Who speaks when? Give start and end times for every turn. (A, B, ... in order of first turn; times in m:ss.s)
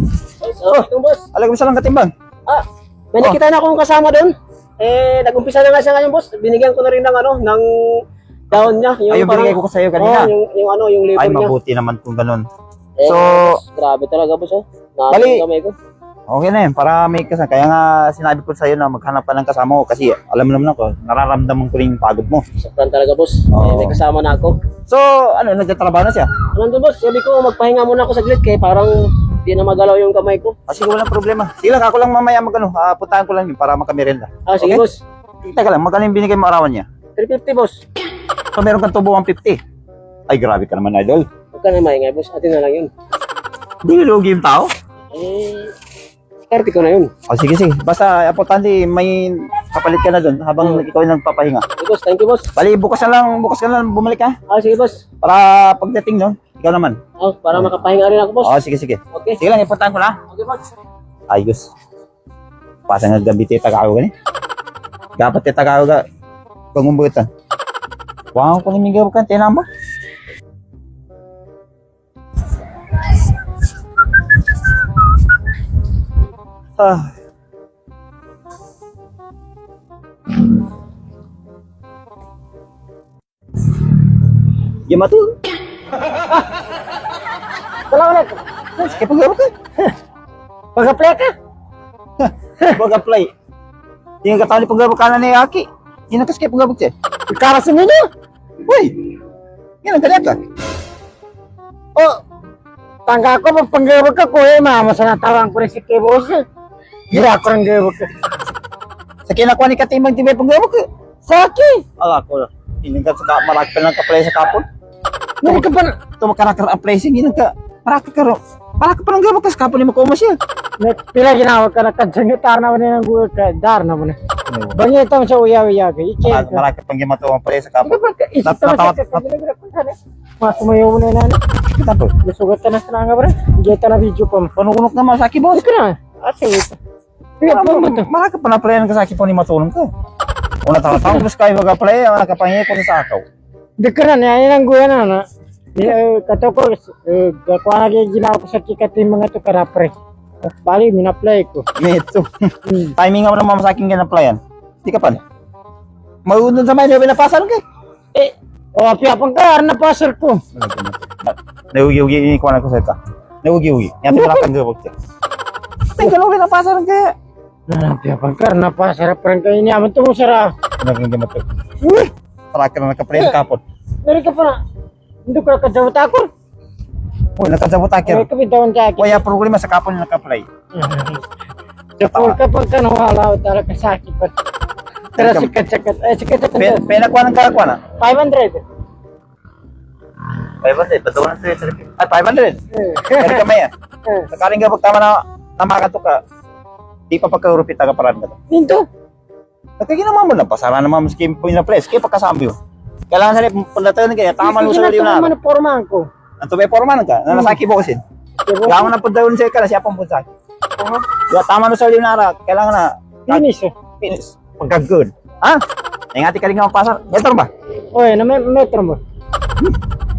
0:00.4-0:01.2 A
0:01.3-0:02.1 B
0:02.5-0:11.5 A
0:08.5-0:10.3 B
0:11.2-0:12.4 B
0:13.0-0:15.7 A
0:13.0-0:13.6 B
0:15.1-0:15.4 B
0:16.3-0:22.4 B
0:22.6-0:24.6 A
0:23.5-0:24.0 B
0:24.9-0:26.3 B
0:26.5-0:30.6 A
0:30.7-0:34.8 B
0:34.5-0:35.0 A
0:35.4-0:36.8 B
0:37.2-0:37.8 A
0:38.5-0:39.6 B
0:40.3-0:41.3 B
0:41.5-0:42.9 A
0:43.8-0:44.7 B
0:45.1-0:45.7 A
0:46.5-0:47.1 A
0:47.3-0:51.6 B
0:51.8-0:52.5 A
0:52.6-0:54.4 B
0:54.5-0:55.0 A
0:55.2-0:57.0 B
0:57.2-0:58.5 A
0:58.4-1:00.2 B
0:59.1-0:59.4 A
1:00.3-1:00.6 A
1:01.3-1:01.7 B
1:02.9-1:04.1 B
1:05.2-1:06.0 B
1:06.7-1:07.3 B
1:08.3-1:09.6 B
1:16.8-1:17.1 B
1:24.9-1:25.2 B
1:27.9-1:28.4 C
1:28.8-1:29.5 B
1:30.7-1:31.3 C
1:32.2-1:33.3 B
1:34.2-1:36.9 B
1:37.3-1:38.0 C
1:38.7-1:38.9 B
1:39.8-1:40.4 B
1:43.0-1:46.4 C
1:47.1-1:48.1 C
1:49.3-1:50.8 B
1:51.2-1:51.8 C
1:52.0-1:54.6 B
1:55.4-1:55.9 C
1:56.2-2:00.4 B
2:00.8-2:04.2 C
2:04.5-2:04.8 B
2:04.7-2:06.6 C
2:06.2-2:09.2 B
2:07.8-2:11.4 C
2:11.7-2:12.1 B
2:12.2-2:14.5 C
2:14.6-2:15.7 B
2:15.5-2:16.8 C
2:17.4-2:18.1 C
2:17.4-2:19.9 B
2:20.6-2:23.2 B
2:20.9-2:21.2 C
2:23.8-2:29.9 C
2:30.5-2:31.6 C
2:31.8-2:32.3 B
2:32.7-2:32.9 C
2:33.0-2:35.2 B
2:36.3-2:37.6 B
2:38.1-2:40.4 C
2:40.5-2:44.9 B
2:44.1-2:44.4 C
2:45.9-2:47.1 B
2:47.7-2:50.5 C
2:50.8-2:51.4 B
2:51.8-2:52.1 C
2:52.5-2:53.6 B
2:54.0-2:54.6 C
2:55.3-2:56.3 C
2:57.4-2:58.2 B
2:58.0-2:59.2 C
2:59.0-3:00.5 B
3:00.7-3:01.2 C
3:02.0-3:04.3 C
3:02.0-3:02.4 B
3:05.2-3:05.5 B
3:05.2-3:06.9 C
3:06.6-3:07.8 B
3:08.0-3:08.6 C
3:10.6-3:12.6 B
3:12.7-3:13.4 C
3:13.2-3:13.7 B
3:14.3-3:16.2 B
3:17.1-3:18.4 B
3:18.5-3:18.8 C
3:19.8-3:22.6 B
3:23.1-3:25.3 B
3:24.4-3:26.1 C
3:26.4-3:28.0 B
3:27.3-3:27.6 C
3:28.4-3:28.9 C
3:28.6-3:30.2 B
3:31.3-3:33.4 B
3:33.3-3:33.7 C
3:34.0-3:35.6 B
3:36.1-3:37.5 B
3:37.9-3:39.0 C